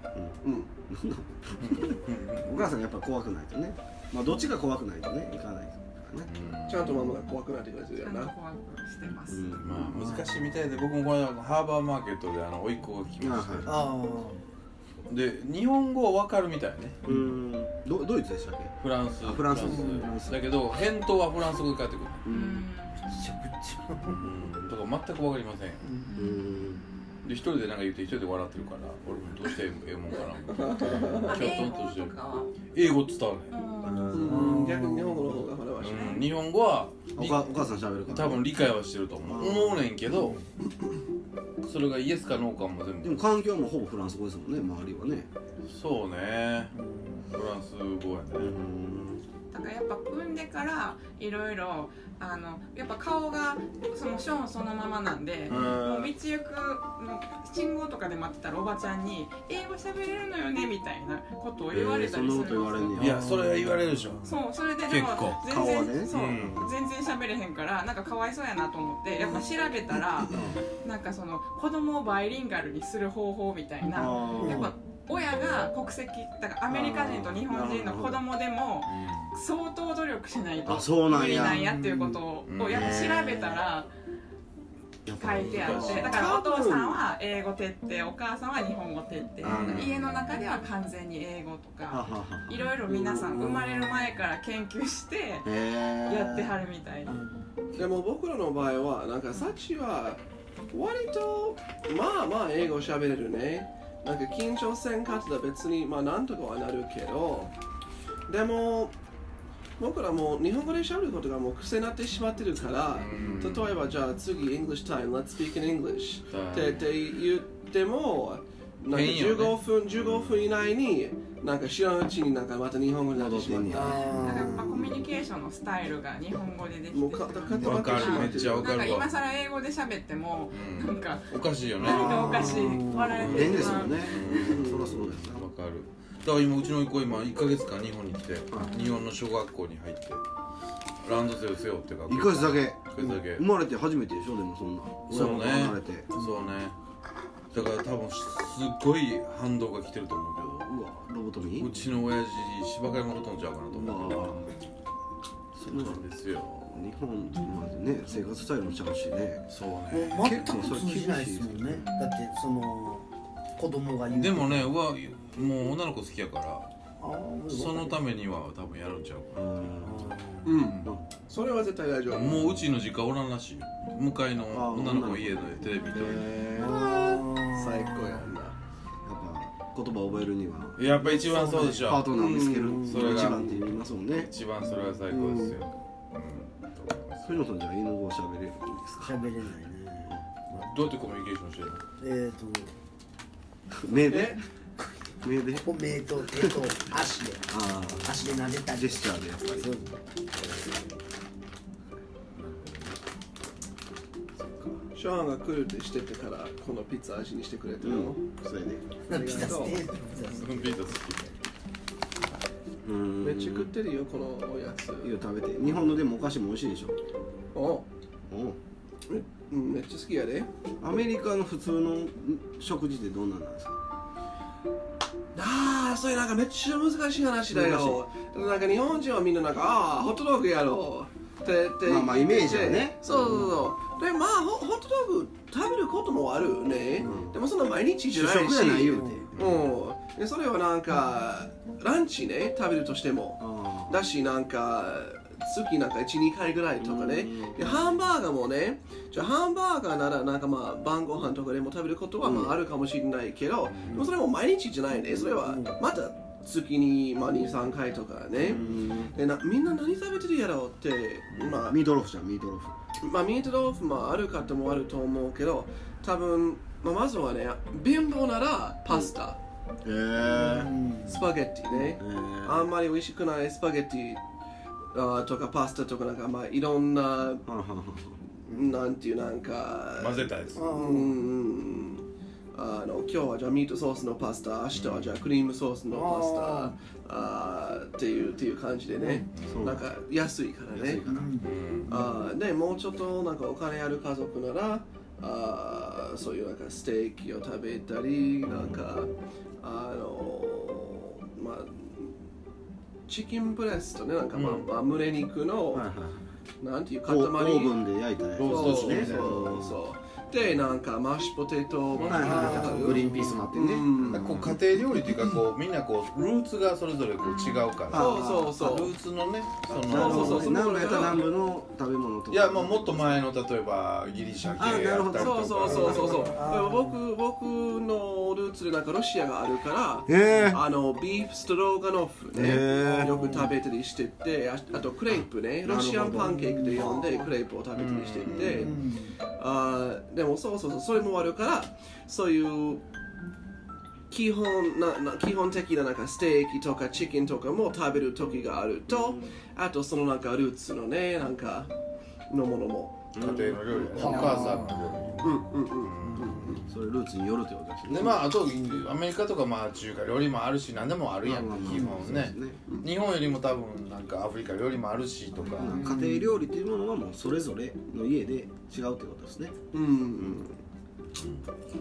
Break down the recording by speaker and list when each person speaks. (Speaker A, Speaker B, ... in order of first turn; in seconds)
Speaker A: 0.4-0.7, 6.7-8.3, 19.7-20.0, 30.5-31.3, 34.1-36.1, 85.5-87.0, 97.7-107.5, 108.3-108.9, 109.8-124.1, 126.9-129.1, 134.2-134.9, 170.4-172.6, 176.6-178.6, 182.2-182.9, 194.0-194.4, 204.9-208.2, 209.1-209.8, 213.2-215.1, 217.5-217.8, 219.1-220.5, 225.3-261.8, 263.0-269.4, 271.1-274.2, 274.9-277.4, 278.5-291.0, 291.9-302.1, 303.1-305.9, 306.6-307.9, 308.5-314.3, 317.9-318.9, 319.9-321.3, 325.1-338.7, 339.4-342.8, 344.1-351.7, 352.3-353.1, 355.2-356.6, 369.7-370.5
Speaker B: 0.9-6.3, 9.3-9.9, 13.2-13.9, 17.0-20.5, 22.2-22.6, 26.1-26.8, 33.8-34.6, 37.1-38.5, 39.2-39.9, 43.0-45.3, 48.3-49.2, 55.5-56.1, 61.7-63.3, 65.4-66.7, 70.3-70.6, 73.9-74.8, 76.7-78.2, 80.6-81.6, 82.5-83.6, 85.0-86.2, 89.4-90.2, 91.9-94.0, 95.4-96.6, 123.1-124.6, 131.8-135.5, 142.1-146.1, 150.7-151.7, 153.7-154.5, 155.5-156.1, 156.7-159.5, 160.2-161.9, 169.3-170.1, 174.5-176.9, 179.0-180.8, 181.8-184.3, 185.1-185.5, 187.2-189.3, 190.1-190.4, 193.7-194.4, 195.2-196.6, 197.5-198.1, 198.7-199.7, 207.8-209.0, 212.8-213.7, 215.0-216.9, 218.3-218.6, 220.8-223.8, 227.5-228.0, 231.8-233.7, 237.0-237.4, 238.1-239.3, 243.4-244.0, 246.8-247.9, 252.2-252.6, 258.3-259.1, 261.5-262.8, 269.8-270.7, 271.9-272.7, 277.4-278.2, 289.5-289.9, 290.7-291.4, 298.4-299.1, 305.7-306.3, 307.0-309.8, 311.9-314.6, 317.9-318.5, 319.7-323.2, 324.5-326.3, 330.1-330.6, 332.3-333.1, 335.6-337.0, 338.3-338.5, 348.9-349.3, 353.1-354.7, 356.6-358.3, 361.2-362.6, 365.4-369.6, 370.1-370.6
Speaker C: 1.6-2.7, 6.3-7.2, 9.5-13.7, 15.1-17.0, 18.8-22.3, 24.0-25.9, 27.2-33.5, 35.8-40.4, 41.6-43.2, 45.6-46.7, 47.3-48.6, 55.5-55.8, 63.0-64.3, 64.8-65.4, 66.1-66.7, 78.8-79.3, 82.4-83.0, 89.5-90.1, 112.8-113.9, 116.3-117.0, 118.9-120.5, 124.6-125.0, 127.5-129.1, 130.5-140.2, 141.0-143.5, 145.1-146.8, 147.5-150.7, 151.6-154.5, 155.6-156.8, 159.5-160.7, 164.1-166.7, 167.5-171.0, 172.1-176.3, 180.8-182.2, 182.8-187.4, 190.5-191.8, 200.3-200.9, 202.3-203.0, 204.3-204.8, 210.2-211.3, 239.3-239.8, 253.6-254.1, 261.3-261.7, 279.9-280.6, 284.7-285.2, 289.3-289.8, 291.4-292.0, 304.3-304.7, 308.4-309.5, 311.9-312.9, 314.1-321.2, 322.3-326.4, 337.7-338.7, 353.2-356.6, 357.9-365.8, 371.1-371.5
Speaker D: 8.0-9.5, 22.3-23.1, 31.2-32.7, 33.5-34.3, 35.9-36.3, 49.5-63.1, 64.2-83.9, 85.1-97.2, 99.3-99.6, 123.9-134.2, 138.6-139.0, 317.2-317.7
Speaker E: 9.9-10.8, 13.6-14.4, 23.0-24.2, 25.8-26.1, 30.8-31.2, 34.2-35.4, 40.0-40.4, 46.7-47.3, 63.1-64.4, 74.4-74.7, 81.1-82.2, 97.1-97.5, 123.7-125.0, 131.9-133.5, 146.2-146.5, 159.9-164.8, 167.0-168.0, 169.8-170.7, 176.5-178.3, 180.9-182.0, 182.7-183.3, 189.0-190.2, 192.0-192.7, 195.5-197.5, 198.0-200.0, 209.1-211.1, 238.8-239.3, 255.1-255.8, 270.2-271.3, 278.5-278.8, 280.5-281.2, 285.9-286.8, 289.0-289.2, 291.0-292.2, 312.0-313.5, 325.6-327.0, 330.3-330.6, 332.4-333.6, 336.4-337.3, 338.4-339.2, 353.9-356.7, 358.3-358.9, 365.4-366.3